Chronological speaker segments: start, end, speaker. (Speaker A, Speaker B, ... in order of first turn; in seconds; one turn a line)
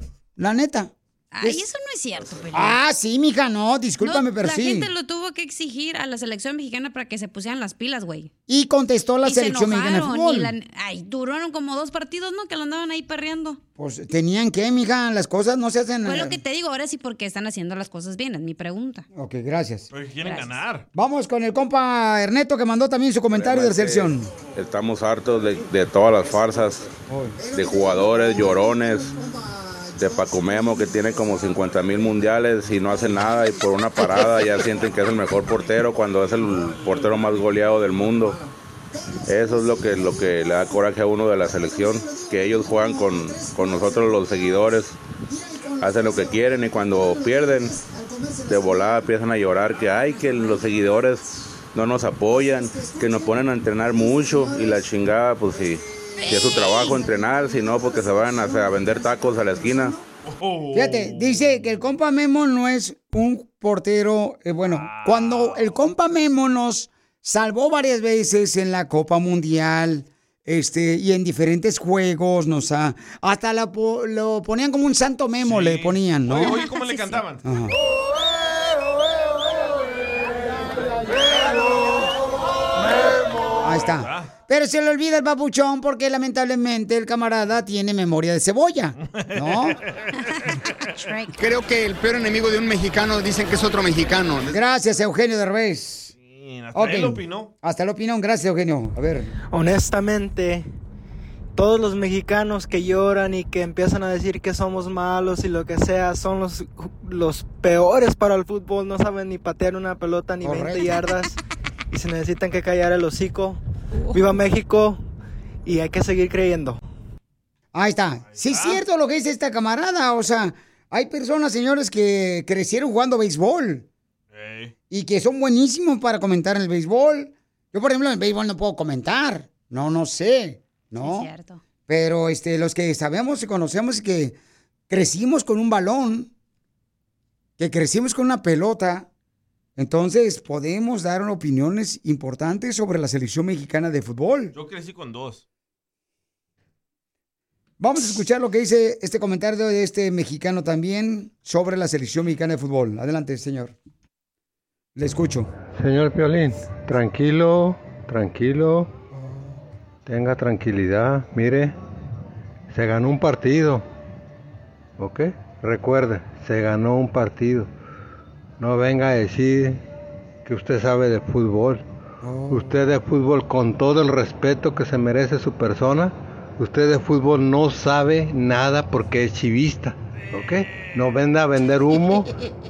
Speaker A: 0.4-1.6
Speaker B: 1.3-2.8
Speaker A: 2.5-4.9
Speaker B: 4.0-8.3
Speaker A: 8.5-10.5
Speaker B: 9.2-13.6
Speaker A: 13.8-16.4
Speaker B: 16.0-19.1
Speaker A: 19.1-19.9
Speaker C: 19.9-20.9
Speaker B: 20.2-20.6
Speaker A: 20.9-24.3
Speaker D: 23.3-26.9
Speaker A: 27.1-31.4
Speaker D: 27.5-29.1
Speaker D: 30.0-38.4
Speaker A: 33.1-34.9
Speaker C: 36.5-37.5
Speaker A: 38.2-40.7
Speaker D: 39.3-44.9
Speaker A: 41.5-44.3
Speaker A: 45.3-49.0
Speaker D: 45.8-47.7
Speaker D: 48.5-51.2
Speaker A: 49.6-51.5
Speaker D: 51.8-59.9
Speaker A: 52.3-54.9
Speaker A: 55.5-60.0
Speaker B: 56.2-57.0
Speaker C: 60.2-61.7
Speaker A: 60.7-76.6
Speaker C: 64.6-65.8
Speaker C: 75.4-77.4
Speaker B: 76.6-77.2
Speaker A: 77.4-77.7
Speaker A: 83.6-89.8
Speaker C: 83.7-84.3
Speaker C: 89.1-90.2
Speaker B: 90.9-91.4
Speaker E: 91.4-94.5
Speaker A: 94.5-96.1
Speaker C: 96.2-97.5
Speaker A: 96.7-99.3
Speaker F: 99.5-100.7
Speaker F: 101.6-111.4
Speaker A: 110.4-110.9
Speaker F: 111.9-115.1
Speaker F: 115.7-116.8
Speaker A: 117.7-123.9
Speaker C: 118.3-118.8
Speaker C: 124.3-124.7
Speaker A: 124.9-131.3
Speaker B: 131.0-131.6
Speaker A: 131.9-134.4
Speaker A: 134.9-136.3
Speaker A: 137.6-139.1
Speaker A: 139.8-144.5
Speaker C: 144.5-145.4
Speaker A: 147.8-153.8
Speaker A: 155.0-155.5
Speaker G: 155.7-158.9
Speaker G: 160.1-161.8
Speaker G: 162.7-163.9
Speaker G: 165.0-167.7
Speaker G: 168.6-169.8
Speaker G: 170.4-171.9
Speaker A: 172.2-172.8
Speaker G: 172.5-182.3
Speaker C: 180.3-180.9